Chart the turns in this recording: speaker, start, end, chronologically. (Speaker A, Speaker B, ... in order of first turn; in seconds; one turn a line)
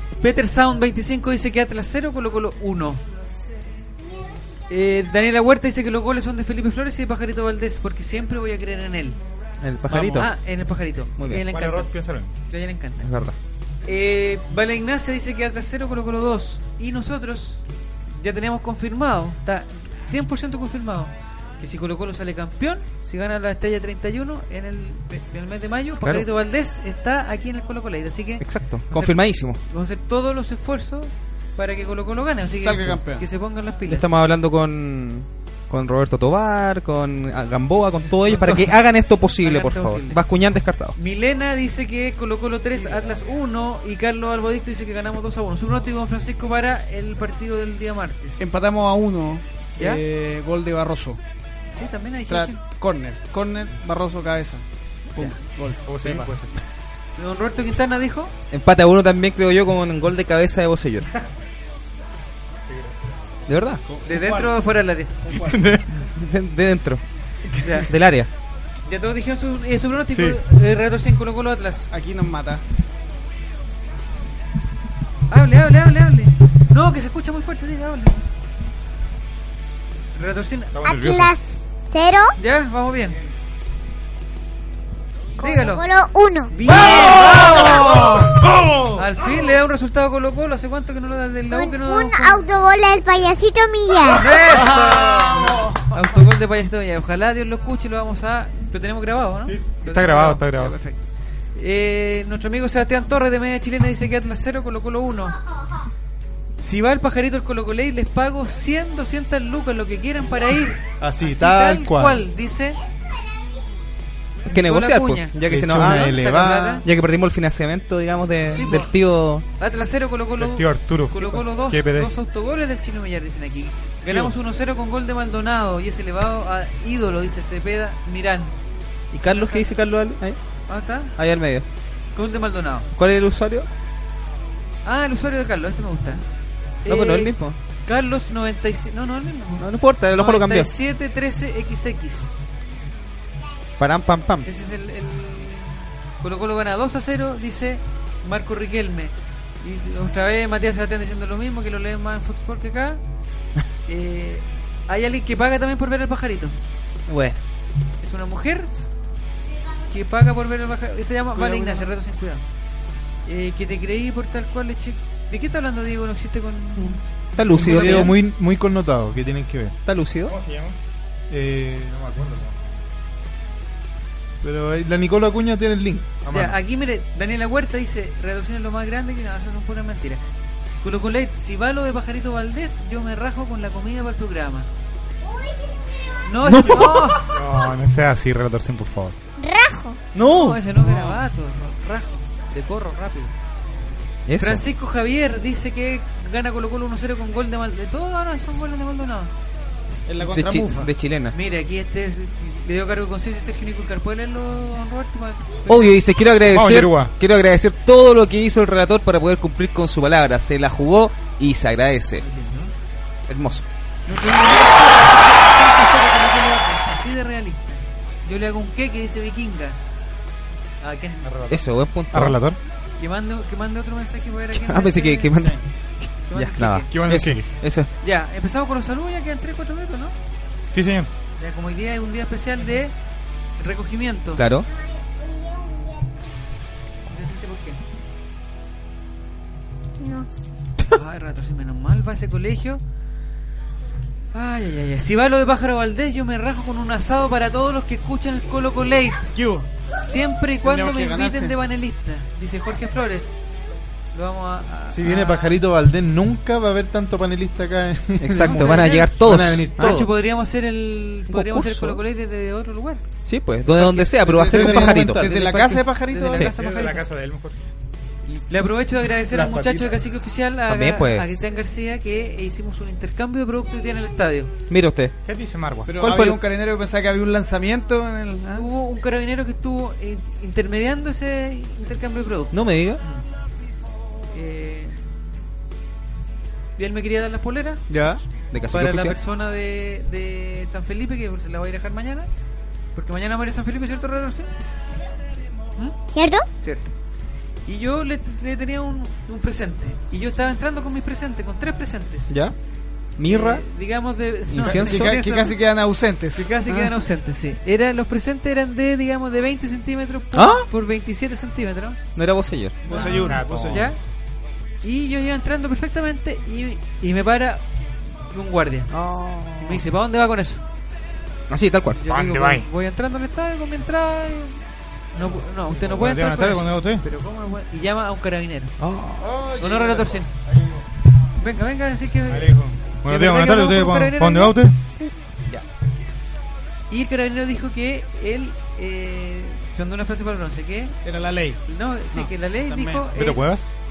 Speaker A: 0.2-3.0
Speaker B: 4.0-4.8
Speaker A: 4.7-9.2
Speaker C: 9.6-10.3
Speaker D: 9.9-10.3
Speaker A: 10.1-13.1
Speaker C: 11.2-11.4
Speaker E: 11.4-12.3
Speaker C: 13.0-13.4
Speaker A: 13.8-17.6
Speaker A: 18.2-34.1
Speaker C: 28.4-29.6
Speaker D: 32.5-33.3
Speaker C: 33.9-41.0
Speaker A: 38.2-38.8
Speaker A: 39.4-40.2
Speaker A: 41.0-48.4
Speaker D: 42.8-43.0
Speaker D: 48.4-51.2
Speaker A: 51.7-52.6
Speaker D: 52.3-56.3
Speaker E: 55.9-56.6
Speaker A: 57.2-58.3
Speaker C: 58.5-61.1
Speaker E: 62.7-63.2
Speaker C: 63.5-63.8
Speaker D: 63.9-64.5
Speaker A: 64.0-65.3
Speaker E: 65.3-65.9
Speaker C: 66.2-67.0
Speaker A: 67.6-67.9
Speaker C: 67.8-68.3
Speaker A: 68.9-71.9
Speaker E: 70.1-70.4
Speaker D: 71.9-72.6
Speaker A: 75.3-78.2
Speaker A: 80.2-80.7
Speaker E: 80.7-81.3
Speaker B: 80.8-82.4
Speaker A: 82.4-83.2
Speaker A: 85.4-85.8
Speaker B: 85.4-86.5
Speaker A: 86.5-88.3
Speaker B: 87.5-88.0
Speaker A: 88.9-92.4
Speaker B: 91.5-94.4
Speaker A: 94.1-101.0
Speaker D: 94.5-96.0
Speaker E: 94.6-95.3
Speaker E: 99.5-100.8
Speaker A: 101.5-105.4
Speaker A: 106.6-112.8
Speaker F: 111.0-112.2
Speaker C: 114.5-116.2
Speaker A: 114.5-116.8
Speaker F: 115.4-116.8
Speaker C: 116.8-119.5
Speaker A: 118.5-118.9
Speaker A: 119.6-128.5
Speaker E: 120.4-122.1
Speaker E: 124.1-124.3
Speaker C: 129.1-130.4
Speaker A: 129.3-129.7
Speaker A: 130.7-131.1
Speaker C: 131.2-131.7
Speaker A: 132.2-132.9
Speaker C: 133.0-133.7
Speaker A: 134.8-136.2
Speaker A: 136.8-137.3
Speaker C: 136.9-137.6
Speaker A: 137.9-142.3
Speaker C: 139.6-140.7
Speaker C: 143.8-144.5
Speaker A: 144.4-153.0
Speaker A: 153.9-156.6
Speaker C: 157.1-157.4
Speaker A: 158.0-158.8
Speaker A: 159.9-162.4
Speaker D: 161.3-161.9
Speaker A: 163.3-168.1
Speaker C: 166.8-168.1
Speaker F: 167.5-169.8
Speaker C: 169.9-170.3
Speaker E: 170.2-170.8
Speaker F: 171.3-172.5
Speaker F: 174.4-176.6
Speaker A: 176.3-180.2
Speaker A: 180.8-184.7
Speaker B: 185.2-186.4
Speaker A: 186.2-187.3
Speaker C: 186.4-187.2
Speaker E: 187.3-189.2
Speaker B: 189.4-190.0
Speaker C: 190.1-190.6
Speaker A: 190.2-193.3
Speaker C: 194.3-194.6
Speaker A: 194.4-199.3
Speaker D: 200.1-200.9
Speaker C: 200.2-201.3
Speaker A: 201.3-206.0
Speaker C: 205.7-212.2
Speaker E: 206.5-207.1
Speaker A: 212.2-212.7
Speaker C: 213.3-213.7
Speaker A: 214.1-219.8
Speaker A: 220.8-221.2
Speaker E: 221.2-222.6
Speaker C: 221.5-222.4
Speaker A: 223.0-225.5
Speaker C: 224.5-225.6
Speaker C: 226.2-227.9
Speaker A: 226.3-226.9
Speaker E: 226.9-227.5
Speaker A: 228.0-230.1
Speaker E: 230.7-231.1
Speaker A: 231.4-232.9
Speaker A: 233.6-234.4
Speaker C: 234.4-234.7
Speaker B: 234.7-236.3
Speaker A: 237.1-237.8
Speaker B: 240.0-240.3
Speaker A: 240.9-242.8
Speaker A: 244.3-249.3
Speaker D: 249.3-249.7
Speaker A: 249.9-253.3
Speaker D: 250.6-251.6
Speaker A: 254.1-255.5
Speaker F: 254.9-260.1
Speaker C: 258.2-260.0
Speaker A: 258.4-263.1
Speaker C: 261.3-262.0
Speaker C: 263.2-265.6
Speaker A: 263.7-267.0
Speaker D: 264.3-266.5
Speaker F: 264.4-265.2
Speaker E: 266.5-267.6
Speaker A: 268.5-274.5
Speaker F: 269.3-270.0
Speaker C: 270.7-271.3
Speaker C: 274.7-275.1
Speaker E: 275.2-275.9
Speaker D: 275.9-278.7
Speaker C: 276.0-276.4
Speaker A: 278.5-283.2
Speaker C: 282.5-283.0
Speaker A: 284.3-285.0
Speaker A: 286.8-287.8
Speaker C: 287.9-289.2
Speaker A: 288.7-292.3
Speaker A: 292.9-294.5
Speaker B: 296.1-296.5
Speaker A: 296.6-296.9
Speaker A: 297.7-302.4
Speaker C: 303.2-303.6
Speaker A: 303.3-305.6
Speaker C: 304.5-305.1
Speaker D: 304.6-306.9
Speaker A: 306.3-312.0
Speaker C: 310.4-310.7
Speaker C: 312.1-313.3
Speaker A: 312.9-314.0
Speaker D: 312.9-313.9
Speaker E: 313.0-313.9
Speaker A: 314.8-317.6
Speaker A: 318.3-318.9
Speaker C: 318.9-319.8
Speaker A: 319.6-320.6
Speaker C: 321.5-322.1
Speaker A: 322.0-324.6
Speaker E: 322.1-322.7
Speaker A: 325.1-328.7
Speaker E: 325.2-327.0
Speaker C: 328.8-329.5
Speaker E: 329.3-330.2
Speaker A: 329.5-330.3
Speaker A: 331.4-334.6
Speaker E: 332.3-334.8
Speaker A: 336.9-341.0
Speaker D: 341.0-341.6
Speaker A: 341.6-343.5
Speaker D: 342.1-343.1
Speaker E: 343.1-343.7